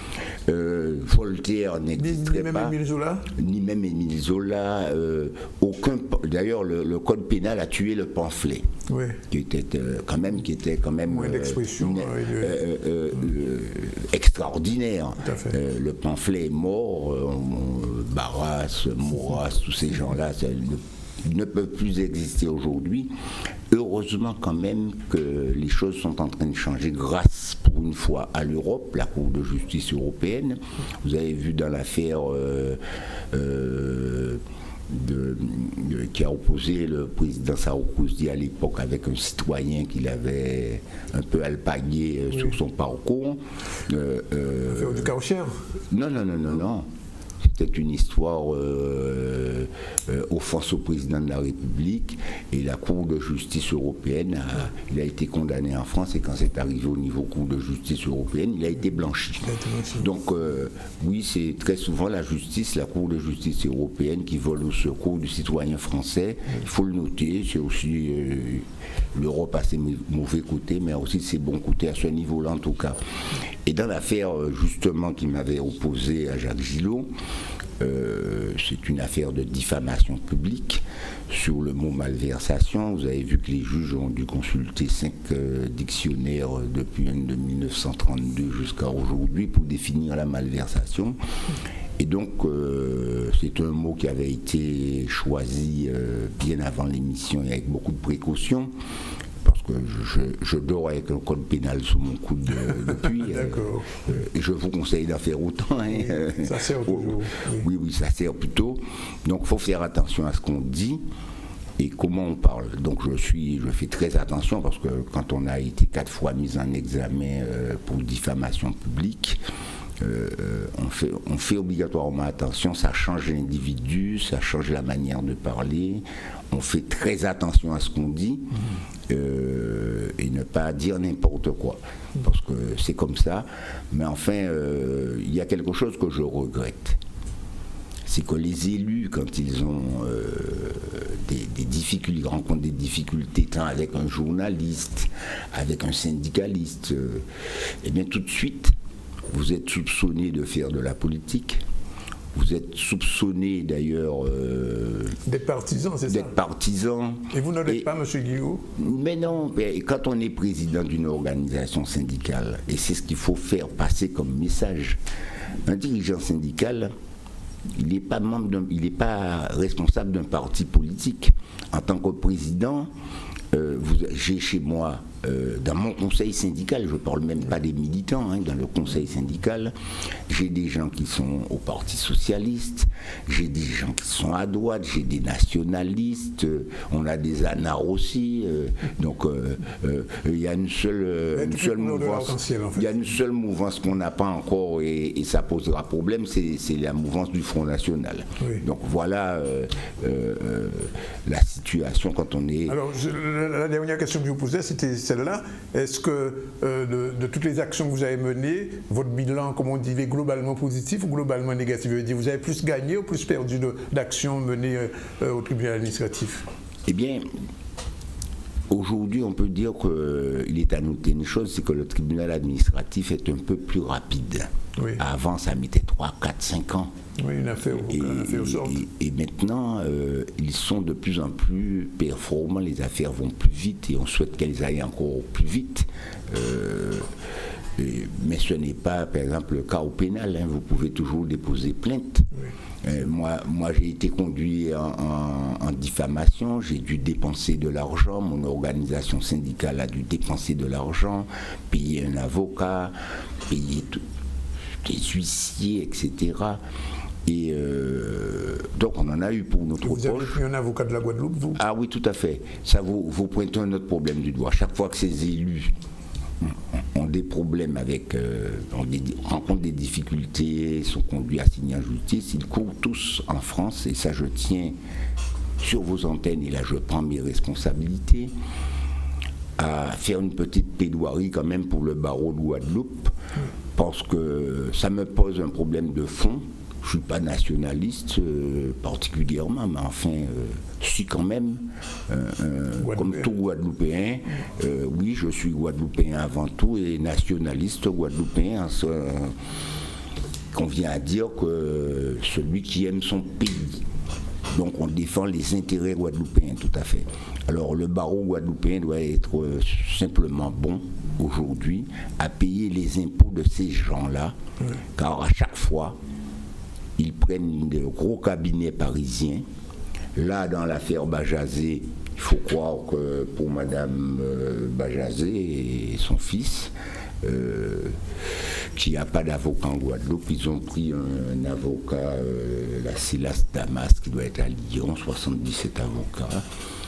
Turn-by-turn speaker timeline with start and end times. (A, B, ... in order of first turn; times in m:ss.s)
0:00.5-0:02.7 A
0:02.0-0:03.2 B
0:03.4-0:08.7 A
0:08.9-0:09.2 B
0:09.3-0:23.1 A
0:11.1-0:12.6 B
0:15.2-0:15.5 B
0:23.7-0:32.8 A
0:33.3-0:45.1 A
0:44.7-0:45.5 B
0:45.9-0:46.9 A
0:47.4-1:13.0 A
0:59.4-1:00.0 B
1:13.6-1:17.1 A
1:17.8-1:31.2 A
1:32.0-1:38.7 A
1:39.4-1:51.0 A
1:42.7-1:44.2 B
1:45.9-1:47.6 B
1:51.8-1:59.4 A
2:00.0-2:08.5 A
2:09.1-2:17.0 A
2:18.0-2:27.2 A
2:27.8-2:28.7 A
2:29.3-2:31.6 A
2:32.3-2:35.2 A
2:35.3-2:36.3 B
2:36.1-2:37.9 A
2:37.3-2:38.7 B
2:38.8-2:45.0 A
2:45.6-2:46.9 A
2:47.7-2:52.9 A
2:53.5-2:59.7 A
3:00.3-3:22.8 A
3:11.3-3:12.9 B
3:22.7-3:36.4 B
3:36.8-3:37.2 A
3:38.7-3:46.9 A
3:47.2-3:48.8 B
3:47.7-3:57.1 A
3:57.8-4:02.3 A
4:02.8-4:12.9 A
4:13.5-4:14.0 A
4:14.8-4:16.6 A
4:17.2-4:20.4 A
4:19.8-4:21.6 B
4:21.5-4:25.7 A
4:26.4-4:34.8 A
4:35.6-4:38.3 A
4:39.6-4:43.1 A
4:43.7-4:59.3 A
4:52.8-4:53.3 B
5:00.5-5:03.8 A
5:04.5-5:14.3 A
5:15.0-5:16.0 A
5:17.0-5:19.4 A
5:20.2-5:28.0 A
5:28.7-5:36.4 A